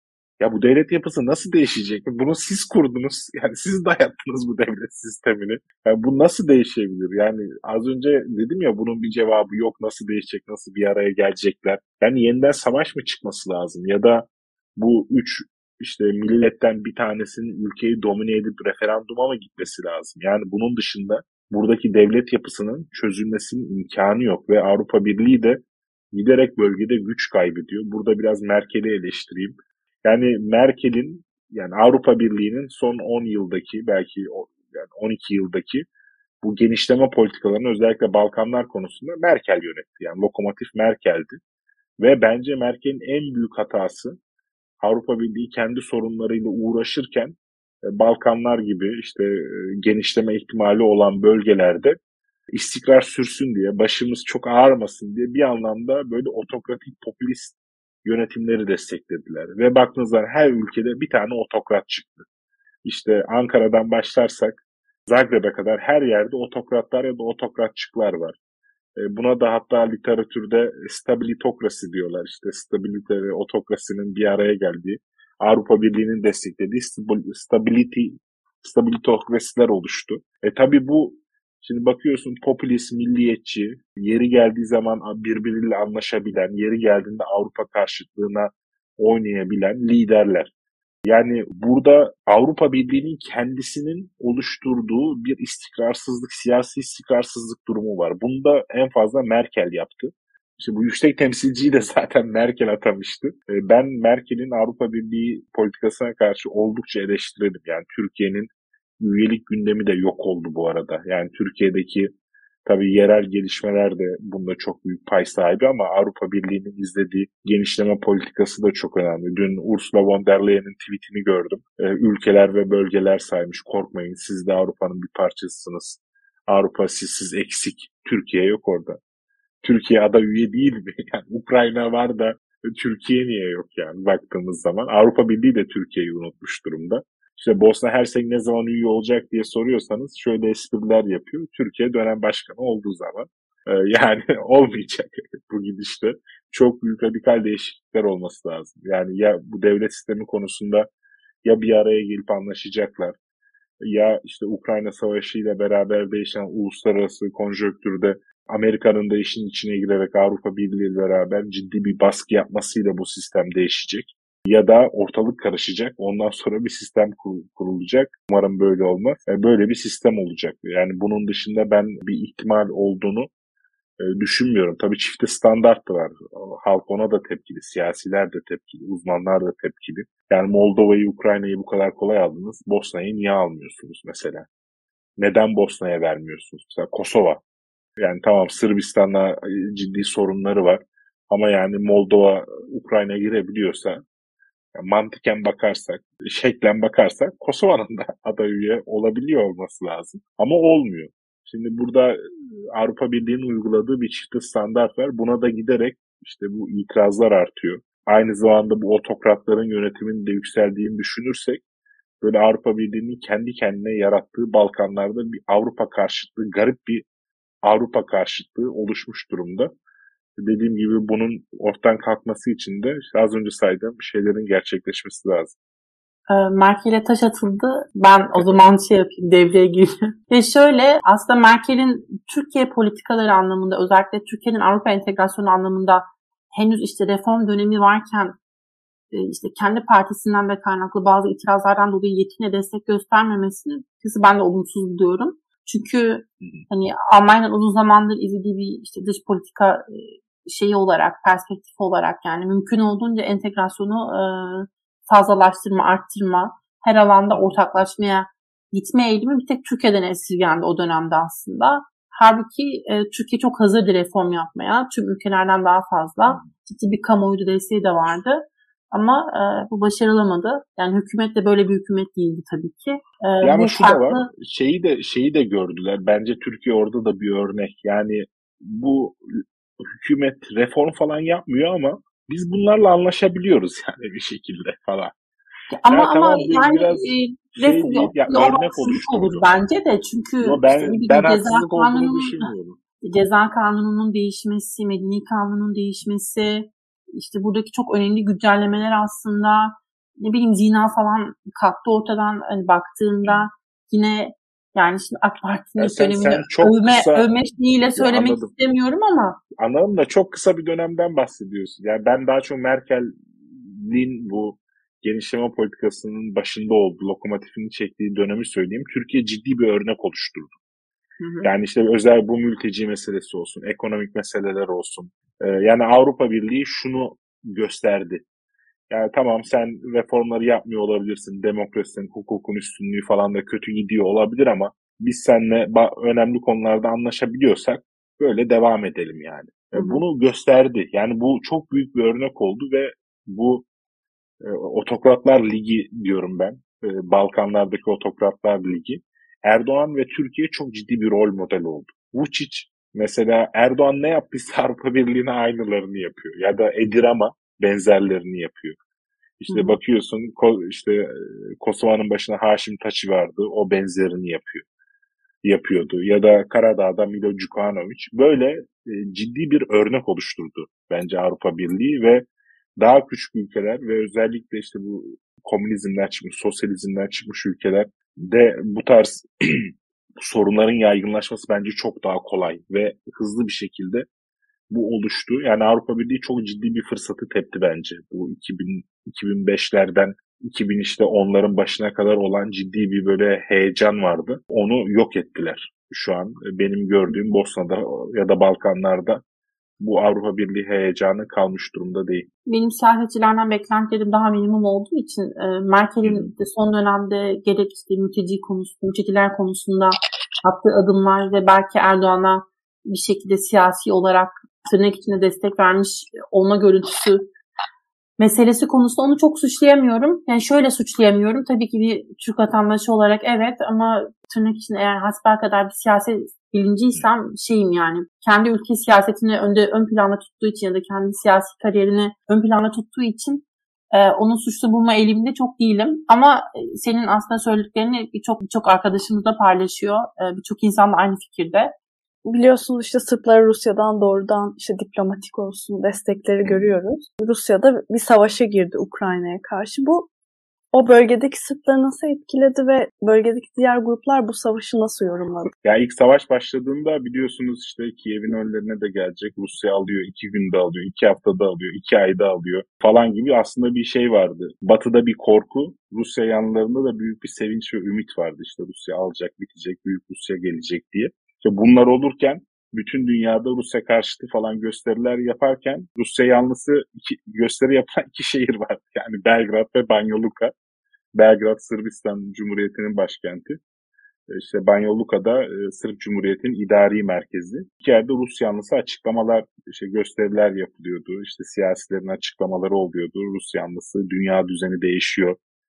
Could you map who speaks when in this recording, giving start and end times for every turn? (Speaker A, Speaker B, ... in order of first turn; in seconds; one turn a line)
Speaker A: 0.4-25.6
Speaker A: 26.1-35.8
Speaker A: 36.4-41.4
Speaker A: 42.0-44.2
Speaker A: 44.8-47.4
Speaker A: 47.9-51.9
Speaker A: 52.5-62.2
Speaker A: 62.8-68.4
Speaker A: 69.0-90.5
Speaker A: 91.0-112.1
Speaker A: 112.7-129.0
Speaker A: 129.6-150.9
Speaker A: 151.4-153.2
Speaker A: 153.8-173.3
Speaker A: 174.0-184.5
Speaker A: 185.2-187.4
Speaker A: 188.0-194.0
Speaker A: 194.7-202.2
Speaker A: 202.7-211.6
Speaker A: 212.2-217.1
Speaker A: 217.6-219.7
Speaker A: 220.4-225.5
Speaker B: 226.3-236.0
Speaker B: 236.6-238.4
Speaker B: 239.1-274.3
Speaker A: 246.4-246.7
Speaker A: 273.4-285.1
Speaker B: 285.8-292.5
Speaker A: 285.9-289.4
Speaker A: 290.4-292.8
Speaker B: 293.0-309.4
Speaker A: 305.8-307.3
Speaker A: 307.9-308.5
Speaker A: 309.6-320.6
Speaker B: 321.2-321.5
Speaker A: 321.4-328.2
Speaker A: 328.9-343.6
Speaker B: 339.8-340.0
Speaker A: 344.4-358.8
Speaker A: 359.4-364.6
Speaker B: 359.5-359.8
Speaker A: 365.4-372.2
Speaker A: 372.8-384.0
Speaker A: 384.7-399.2
Speaker A: 399.8-402.3
Speaker B: 402.4-417.3
Speaker A: 406.0-406.3
Speaker B: 418.2-441.7
Speaker C: 442.2-450.1
Speaker C: 450.7-455.5
Speaker A: 455.6-480.5
Speaker A: 481.1-483.6
Speaker A: 484.3-495.4